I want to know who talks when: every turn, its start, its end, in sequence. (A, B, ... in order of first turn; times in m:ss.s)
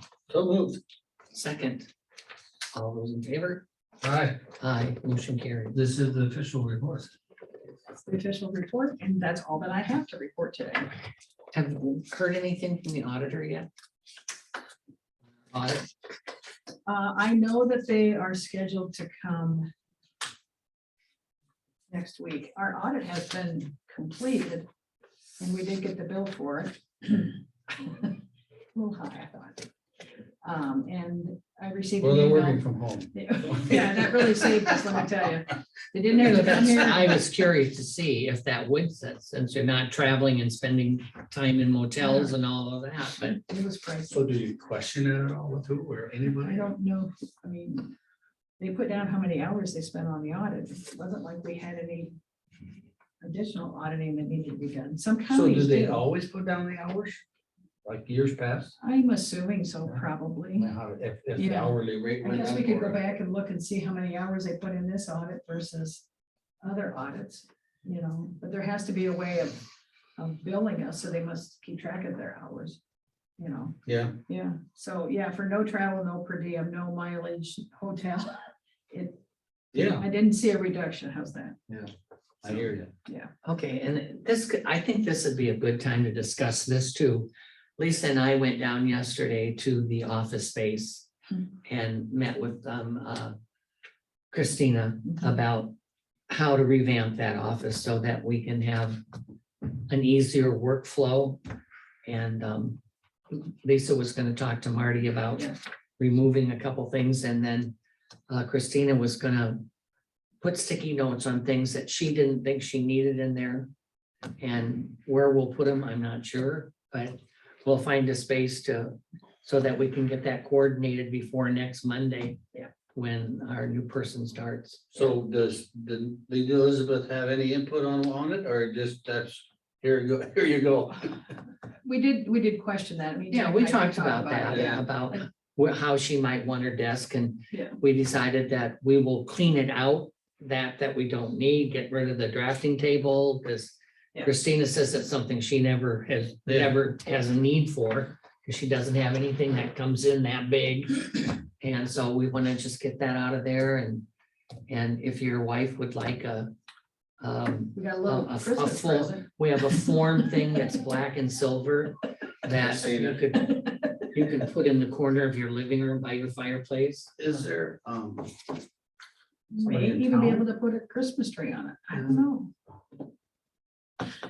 0:00.3-0:00.8 A
0:01.3-0:01.9 B
0:02.7-0:03.6 B
0:04.0-0:04.4 A
0:04.6-0:05.8 B
0:05.7-0:07.1 A
0:07.9-0:10.9 C
0:11.5-0:13.7 B
0:15.5-0:15.9 B
0:16.8-0:19.7 C
0:21.9-0:24.7 C
0:25.4-0:28.2 C
0:28.7-0:29.6 C
0:30.4-0:32.6 C
0:32.0-0:34.5 A
0:33.1-0:37.2 C
0:36.2-0:43.4 B
0:42.0-0:42.3 C
0:43.2-0:44.2 C
0:44.1-0:46.6 A
0:46.4-0:47.9 C
0:48.6-0:52.1 C
0:53.2-0:56.0 C
0:55.3-0:57.2 A
0:57.8-0:58.7 A
0:58.8-1:00.7 C
1:00.5-1:03.1 A
1:01.4-1:06.0 C
1:06.6-1:09.6 C
1:10.2-1:12.8 C
1:13.4-1:19.2 C
1:13.8-1:14.1 A
1:19.7-1:20.0 A
1:19.8-1:21.6 C
1:22.4-1:22.9 A
1:23.0-1:23.3 C
1:23.4-1:31.1 B
1:31.6-1:33.4 B
1:34.3-1:35.7 B
1:36.3-1:39.0 B
1:39.9-1:41.4 B
1:42.0-1:42.8 B
1:43.3-1:47.7 B
1:48.3-1:49.6 B
1:50.4-1:53.7 B
1:54.4-2:02.4 B
2:02.9-2:05.1 B
2:04.9-2:11.2 A
2:11.8-2:15.2 C
2:13.3-2:34.0 B
2:14.5-2:14.8 A
2:26.4-2:26.8 A
2:34.7-2:36.5 B
2:37.2-2:47.1 B
2:37.7-2:39.2 C
2:42.5-2:43.3 A
2:47.2-2:48.3 A
2:49.5-2:52.5 C
2:49.6-2:50.4 A